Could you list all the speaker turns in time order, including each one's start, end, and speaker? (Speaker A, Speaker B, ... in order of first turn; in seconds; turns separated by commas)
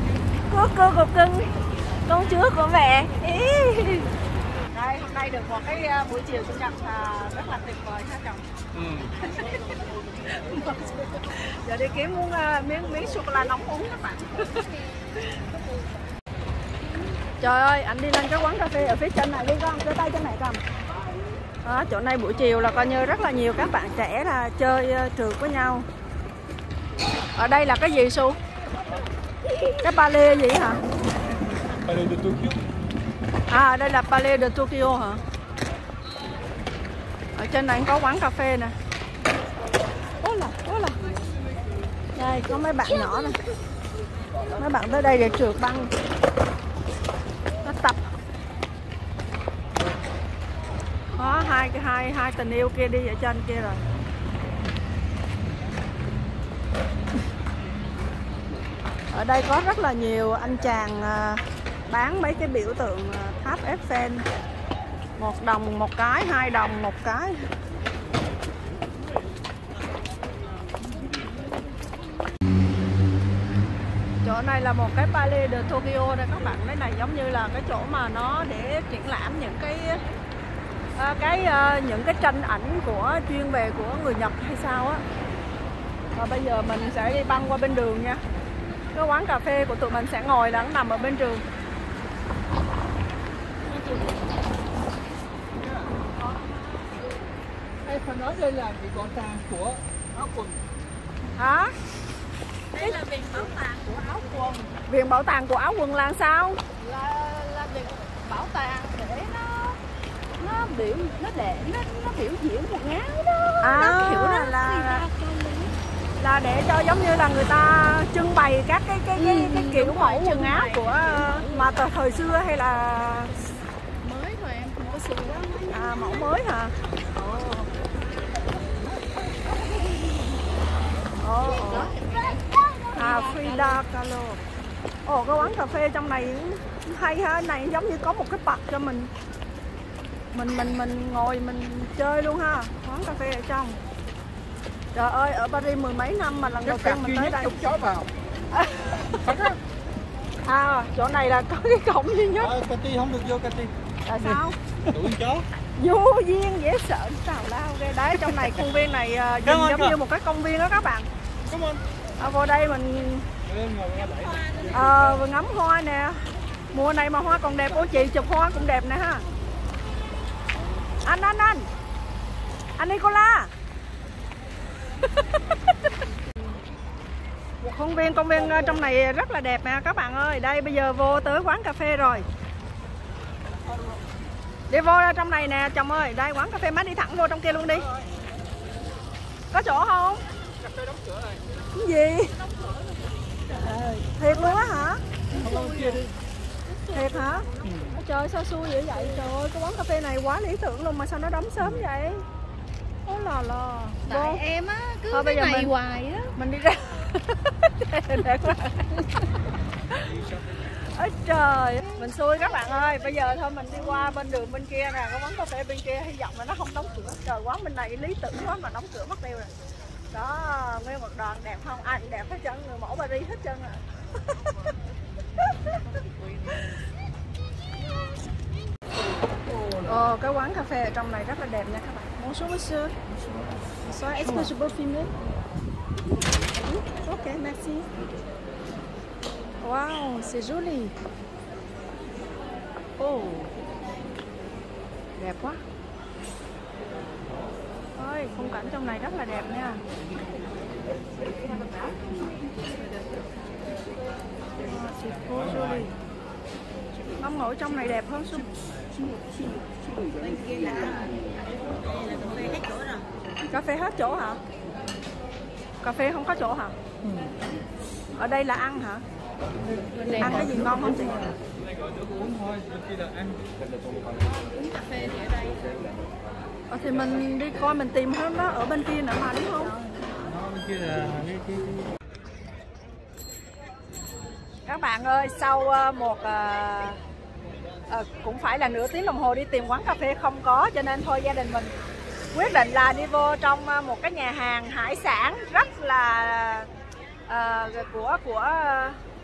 Speaker A: 0.4-1.5, Speaker A: 2.0-4.1, Speaker A: 4.7-8.4, Speaker B: 8.8-9.1, Speaker A: 9.2-9.6, Speaker A: 10.3-14.7, Speaker A: 17.4-20.6, Speaker A: 21.6-25.9, Speaker A: 27.3-28.4, Speaker A: 29.8-30.8, Speaker B: 31.8-32.6, Speaker A: 33.5-35.2, Speaker A: 37.4-38.7, Speaker A: 40.2-41.0, Speaker A: 42.1-43.4, Speaker A: 44.5-45.9, Speaker A: 47.6-48.0, Speaker A: 51.1-53.8, Speaker A: 59.1-64.2, Speaker A: 65.2-67.5, Speaker A: 74.2-80.0, Speaker A: 81.0-85.0, Speaker A: 86.1-88.2, Speaker A: 88.9-91.4, Speaker C: 93.8-94.1, Speaker B: 97.8-100.6, Speaker A: 101.3-101.7, Speaker C: 102.7-104.7, Speaker A: 104.8-106.6, Speaker C: 106.8-109.8, Speaker C: 110.4-115.7, Speaker A: 113.6-115.0, Speaker A: 116.2-123.3, Speaker C: 119.1-121.5, Speaker C: 124.0-126.3, Speaker A: 125.7-126.7, Speaker C: 127.1-127.7, Speaker A: 131.2-131.9, Speaker C: 131.4-133.8, Speaker A: 132.9-134.4, Speaker A: 135.0-139.1, Speaker A: 140.3-143.8, Speaker A: 144.9-147.6, Speaker B: 146.7-148.1, Speaker A: 148.5-149.3, Speaker B: 149.1-149.6, Speaker A: 150.4-152.5, Speaker B: 152.4-155.4, Speaker A: 154.1-154.6, Speaker A: 155.8-161.1, Speaker B: 159.4-160.0, Speaker B: 161.4-161.8, Speaker A: 162.2-163.3, Speaker B: 163.4-164.7, Speaker A: 164.7-169.2, Speaker A: 171.0-171.7, Speaker A: 172.8-173.5, Speaker A: 177.6-182.3, Speaker A: 184.7-187.9, Speaker A: 189.5-190.2, Speaker B: 190.7-191.4, Speaker A: 191.7-192.4, Speaker C: 193.5-194.0, Speaker A: 193.6-195.0, Speaker C: 195.3-196.1, Speaker B: 195.3-196.1, Speaker C: 196.7-197.8, Speaker A: 196.9-202.2, Speaker B: 197.7-197.9, Speaker A: 203.1-204.4, Speaker C: 204.0-206.3, Speaker A: 205.1-205.7, Speaker A: 206.3-209.1, Speaker A: 210.8-219.5, Speaker A: 220.1-223.8, Speaker A: 229.8-232.9, Speaker A: 233.8-235.1, Speaker A: 236.6-237.9, Speaker A: 239.6-240.9, Speaker A: 243.0-243.5, Speaker A: 245.2-245.6, Speaker A: 247.9-249.8, Speaker A: 254.6-255.9, Speaker B: 255.3-255.8, Speaker A: 257.2-258.5, Speaker C: 259.0-261.1, Speaker C: 261.9-263.1, Speaker A: 263.5-264.4, Speaker A: 265.8-266.8, Speaker A: 268.2-269.0, Speaker C: 269.9-271.0, Speaker A: 270.1-271.3, Speaker B: 271.8-273.4, Speaker C: 274.7-275.6, Speaker A: 276.7-279.8, Speaker B: 280.2-281.9, Speaker A: 284.6-287.0, Speaker A: 287.9-291.7, Speaker A: 292.3-296.7, Speaker A: 297.3-299.0